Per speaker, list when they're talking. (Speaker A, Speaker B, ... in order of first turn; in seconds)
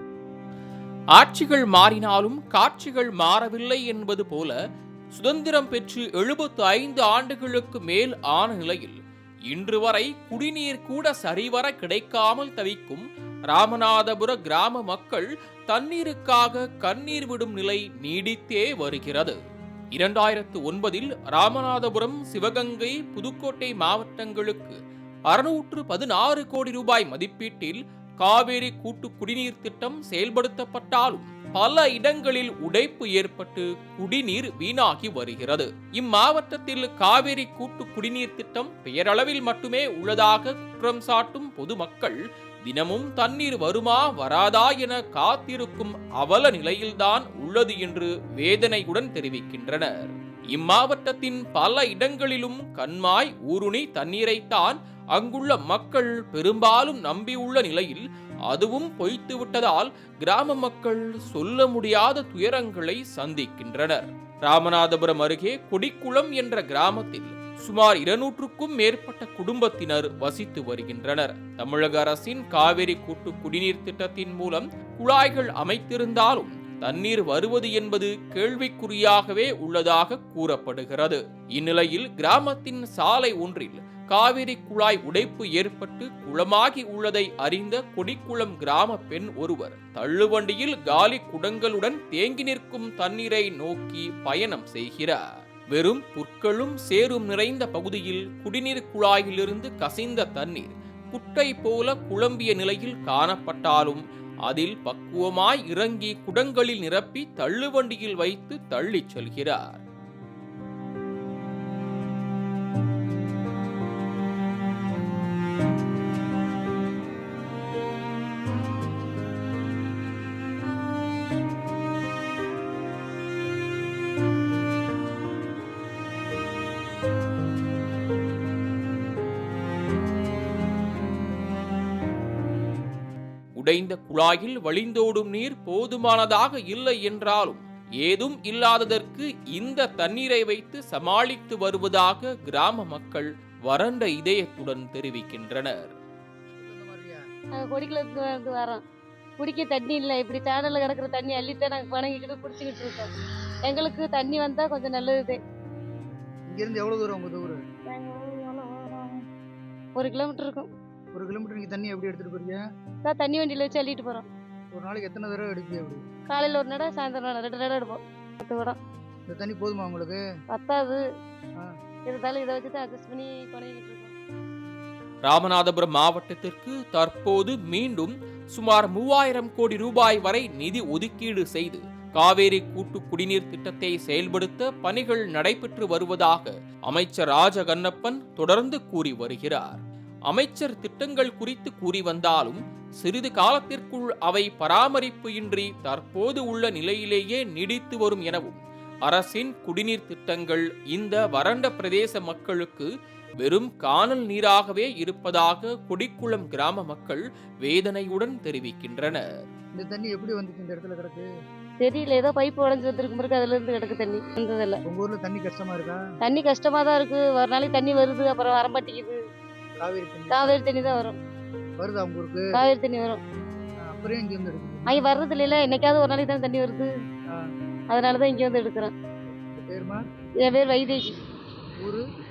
Speaker A: 1.1-4.5, 5.1-9.0, 9.5-19.4, 19.9-24.8, 25.3-109.8, 133.6-145.9, 175.2-189.8, 190.3-202.9, 203.4-209.2
Speaker B: 146.6-147.2, 156.5-157.6, 161.1-162.6, 164.7-166.0, 169.3-170.2, 209.7-211.3, 214.8-216.0, 219.8-220.6, 221.8-222.6, 223.8-225.0, 229.4-230.0
Speaker C: 147.6-148.8, 149.4-153.1, 153.7-155.4, 157.9-159.2, 160.0-160.7, 163.0-164.3, 166.3-168.8, 170.5-171.0, 172.1-174.1, 211.8-214.8, 216.2-219.2, 220.3-221.2, 222.5-223.2, 224.9-226.9, 227.9-228.9, 230.4-231.2